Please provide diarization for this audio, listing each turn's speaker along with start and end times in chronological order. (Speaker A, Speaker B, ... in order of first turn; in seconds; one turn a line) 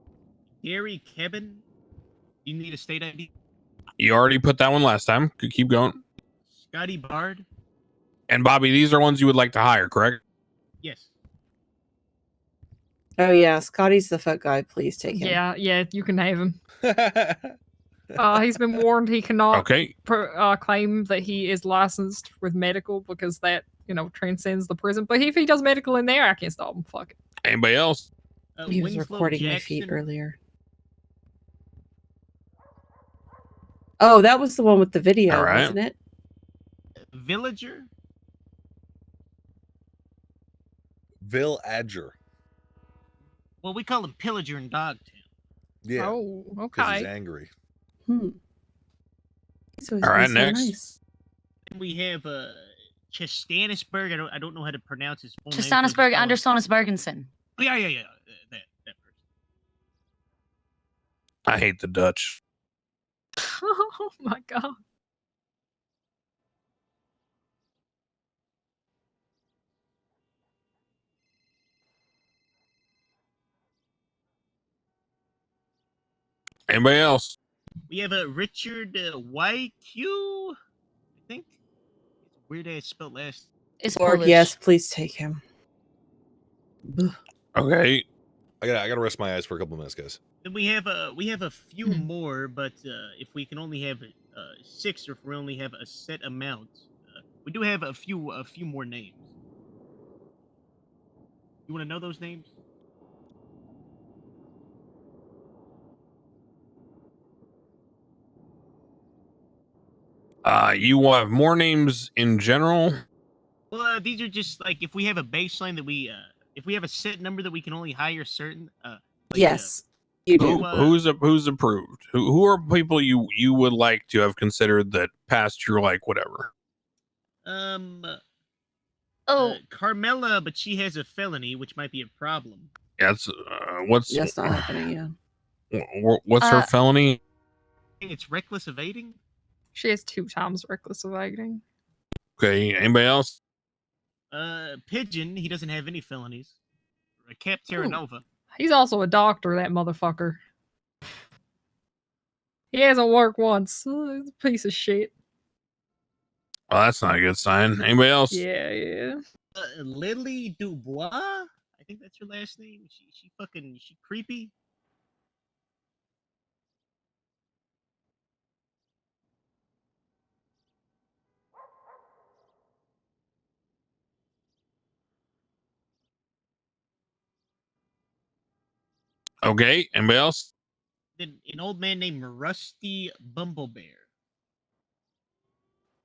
Speaker A: 0.6-1.6
Speaker A: 2.4-3.3
Speaker B: 4.0-6.0
Speaker A: 6.5-7.5
Speaker B: 8.3-10.2
Speaker A: 10.8-11.1
Speaker C: 13.2-15.4
Speaker D: 15.1-16.6
Speaker E: 16.8-17.5
Speaker E: 18.2-18.8
Speaker D: 18.2-27.1
Speaker B: 19.5-19.9
Speaker B: 27.4-28.1
Speaker A: 28.6-30.0
Speaker C: 28.7-30.4
Speaker C: 34.0-36.0
Speaker B: 35.3-35.7
Speaker A: 37.1-37.9
Speaker E: 41.2-42.1
Speaker A: 43.6-45.2
Speaker E: 45.8-46.1
Speaker D: 46.0-47.1
Speaker E: 46.7-47.5
Speaker C: 48.1-48.4
Speaker C: 49.8-51.0
Speaker B: 50.0-50.7
Speaker A: 51.7-56.4
Speaker F: 55.5-57.3
Speaker A: 57.6-59.0
Speaker B: 61.5-62.4
Speaker D: 63.6-64.8
Speaker B: 76.7-77.4
Speaker A: 77.9-80.5
Speaker A: 81.2-81.5
Speaker A: 82.3-83.5
Speaker F: 83.8-84.5
Speaker C: 83.9-85.4
Speaker C: 86.9-87.1
Speaker B: 87.5-88.0
Speaker E: 88.6-90.2
Speaker A: 90.4-99.2
Speaker A: 101.7-102.5
Speaker B: 110.4-113.0
Speaker A: 113.7-119.7
Speaker C: 119.3-120.6
Speaker B: 120.4-126.5
Speaker A: 120.4-121.0
Speaker A: 127.4-128.2
Speaker F: 129.3-129.6
Speaker A: 129.4-132.7
Speaker B: 133.0-134.8
Speaker C: 134.1-135.1
Speaker B: 135.7-137.2
Speaker F: 136.4-136.7
Speaker A: 138.0-139.2
Speaker D: 139.7-141.6
Speaker B: 142.4-143.4
Speaker A: 144.3-146.5
Speaker A: 147.2-148.2
Speaker D: 147.7-148.0
Speaker D: 148.5-150.4
Speaker D: 152.7-155.1
Speaker B: 156.7-158.4
Speaker D: 158.3-159.2
Speaker A: 159.6-164.5
Speaker B: 179.4-180.5
Speaker A: 181.2-184.1